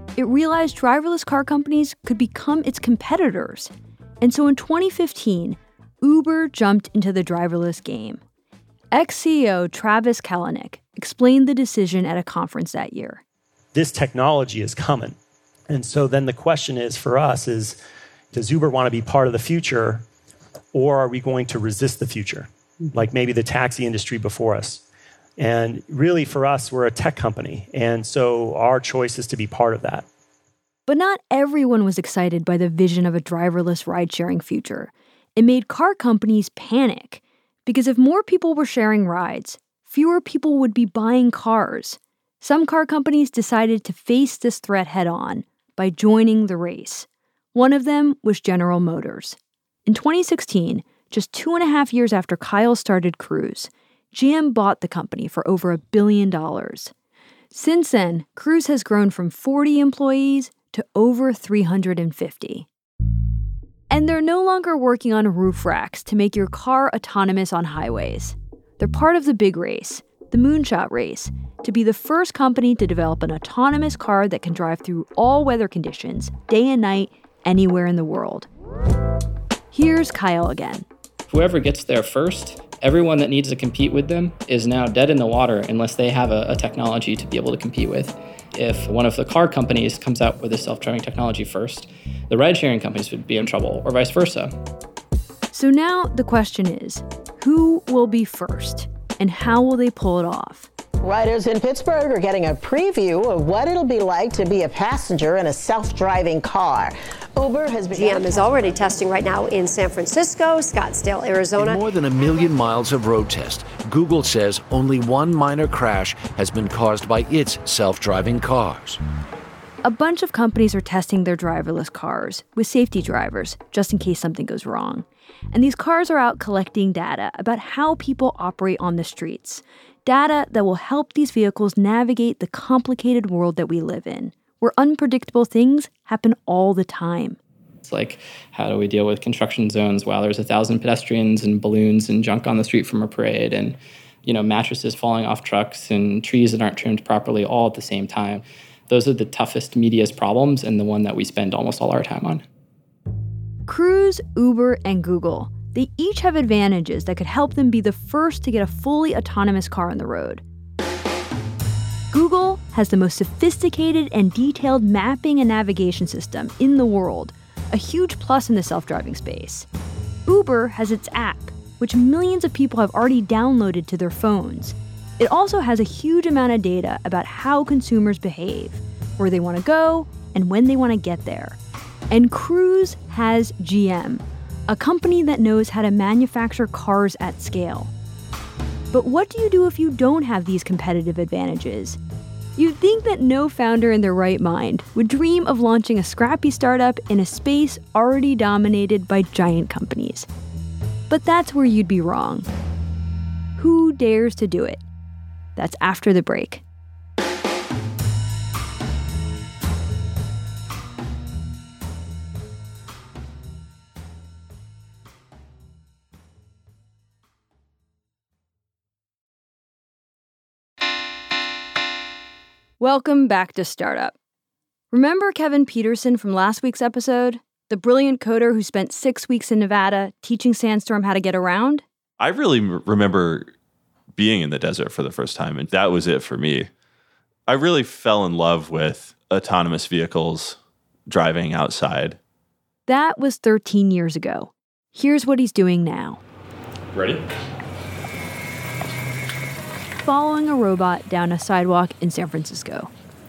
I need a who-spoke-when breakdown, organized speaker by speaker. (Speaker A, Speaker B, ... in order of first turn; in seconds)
Speaker A: 0.2-8.2, 8.9-13.2, 30.9-56.9, 57.5-62.7, 63.9-78.5, 79.7-80.9, 95.5-100.7, 119.8-137.4, 153.7-160.4, 162.1-169.7, 170.3-181.6, 182.1-187.9, 188.9-192.0, 192.6-200.3, 201.1-202.5, 203.6-204.8, 205.6-206.6, 222.8-224.2, 224.9-231.8, 242.9-246.2, 250.0-252.9
Speaker B: 13.7-15.2, 15.7-17.8, 18.3-20.1, 20.7-24.8, 25.4-30.1
Speaker C: 81.3-94.5, 137.8-152.4
Speaker D: 101.0-109.0
Speaker E: 107.9-111.8
Speaker F: 111.6-119.0
Speaker G: 232.2-233.5, 234.2-236.7, 237.5-240.6, 241.1-242.2, 246.9-247.2